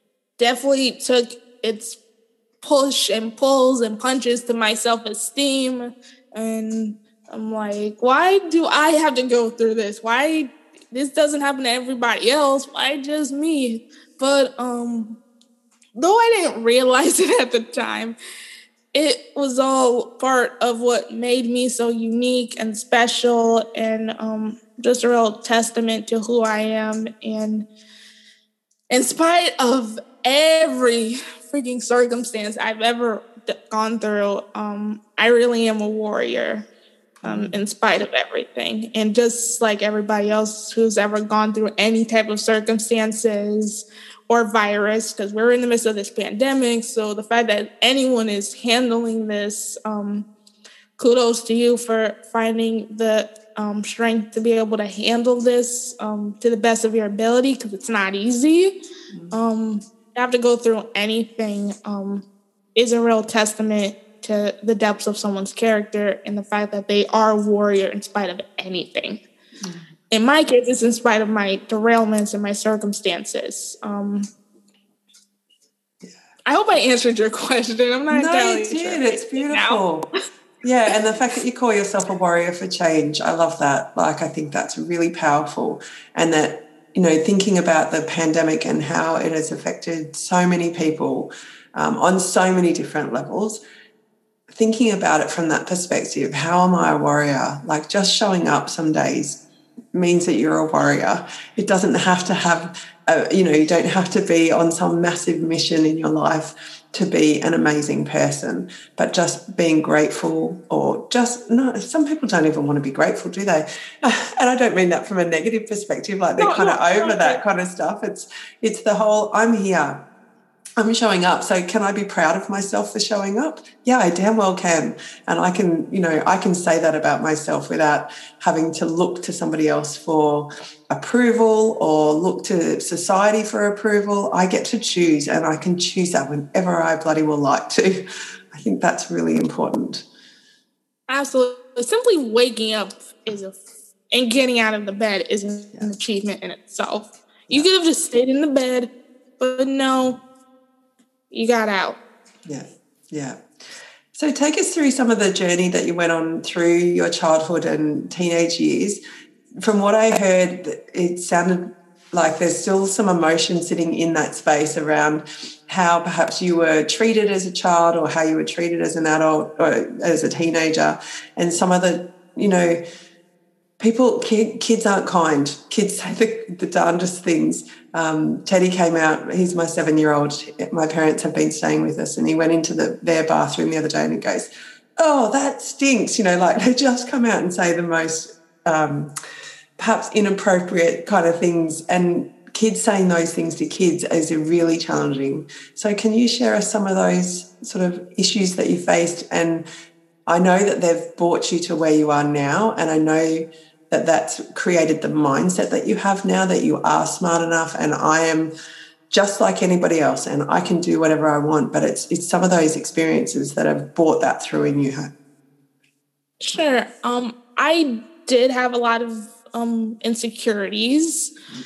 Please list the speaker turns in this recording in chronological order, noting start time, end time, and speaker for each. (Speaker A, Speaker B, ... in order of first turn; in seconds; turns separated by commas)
Speaker A: 0.4-2.0, Speaker A: 2.6-15.2, Speaker A: 15.9-18.1, Speaker A: 18.9-27.7, Speaker A: 28.9-36.7, Speaker B: 37.2-37.6, Speaker A: 37.2-50.3, Speaker A: 51.0-58.7, Speaker A: 59.3-69.2, Speaker A: 70.1-74.3, Speaker A: 76.5-79.8, Speaker B: 78.1-80.1, Speaker B: 80.6-93.6, Speaker B: 94.5-99.4, Speaker B: 99.9-120.0, Speaker A: 116.4-117.4, Speaker B: 120.8-140.0, Speaker A: 141.1-143.6, Speaker A: 144.1-150.2, Speaker A: 151.3-152.0, Speaker B: 152.4-153.4, Speaker B: 154.1-159.0, Speaker B: 159.6-172.8, Speaker B: 173.8-189.1, Speaker B: 189.8-199.7, Speaker B: 200.3-208.5, Speaker B: 209.1-215.1, Speaker A: 216.4-221.3